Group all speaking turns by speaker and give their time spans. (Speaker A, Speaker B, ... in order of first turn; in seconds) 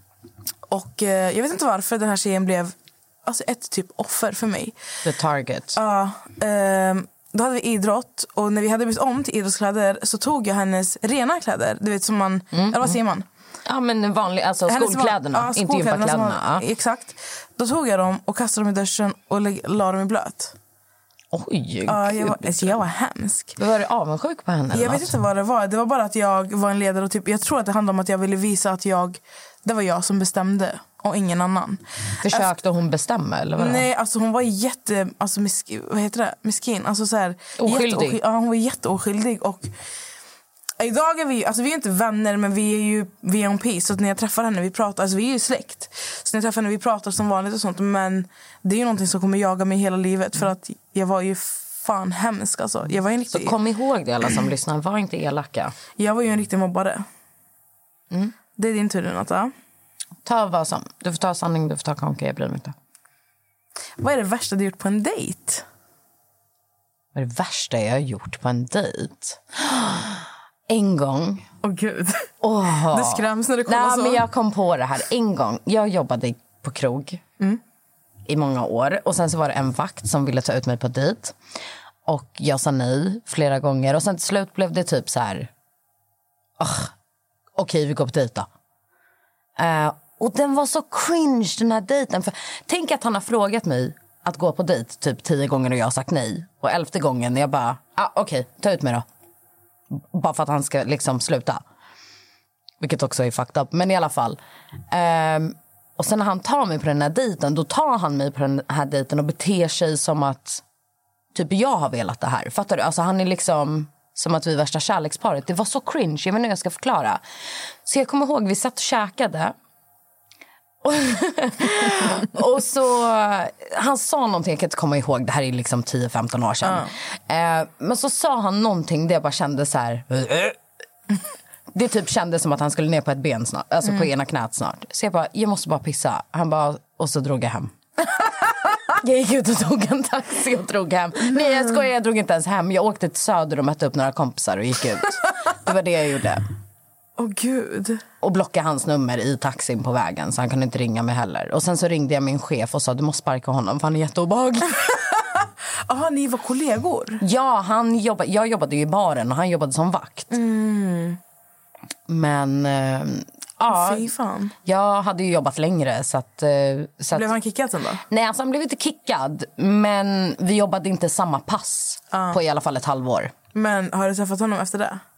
Speaker A: 0.7-4.8, 5.7-13.3, 14.7-20.6, 21.9-23.6, 24.7-32.5, 33.6-39.7, 40.8-53.5, 56.0-57.1, 58.6-59.5, 64.0-65.7, 71.6-72.3, 72.9-74.2, 126.6-126.9, 141.3-141.8, 147.2-148.0, 155.9-157.2, 160.3-161.2, 163.7-164.6, 167.1-168.0, 172.1-172.4, 173.5-175.0
Speaker B: 5.0-5.8, 12.5-12.9, 13.7-16.6, 21.3-22.7, 23.6-25.1, 32.2-33.9, 37.6-38.2, 53.3-55.7, 60.2-62.7, 67.1-71.5, 72.4-77.2, 78.3-81.3, 82.1-85.5, 86.6-86.9, 87.6-88.5, 89.6-99.0, 99.9-101.6, 102.8-104.4, 104.9-110.6, 111.3-117.2, 117.8-119.5, 120.8-130.6, 131.7-138.2, 139.0-146.4, 148.2-155.0, 157.2-160.3, 162.1-164.1, 164.7-167.3, 168.1-173.3